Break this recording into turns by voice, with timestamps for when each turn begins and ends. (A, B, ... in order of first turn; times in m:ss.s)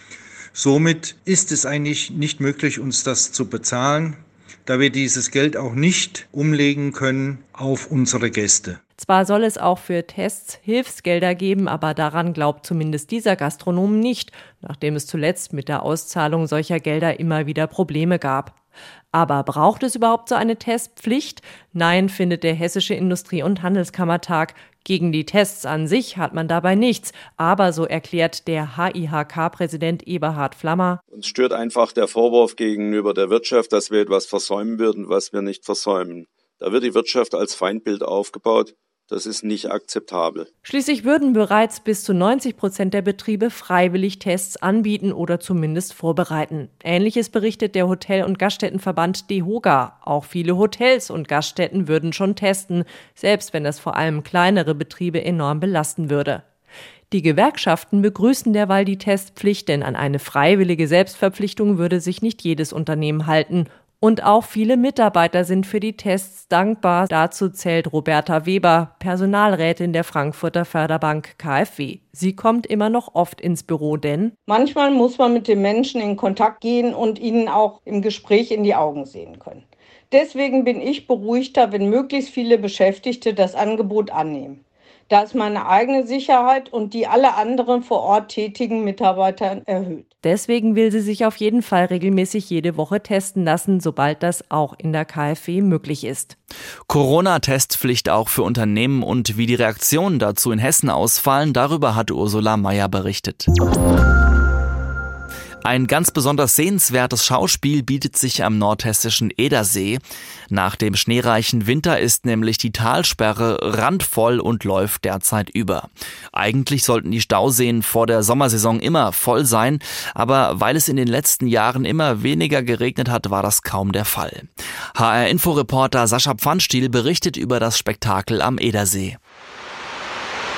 0:00.6-0:08.8 A
0:09.0-0:18.6 B
0:19.1-0:31.0 B
0:31.1-0:40.5 C
0:40.6-0:56.4 B
0:57.1-1:14.4 B
1:14.4-1:30.1 D
1:30.2-1:36.4 B
1:36.9-1:43.5 E
1:45.6-2:09.2 E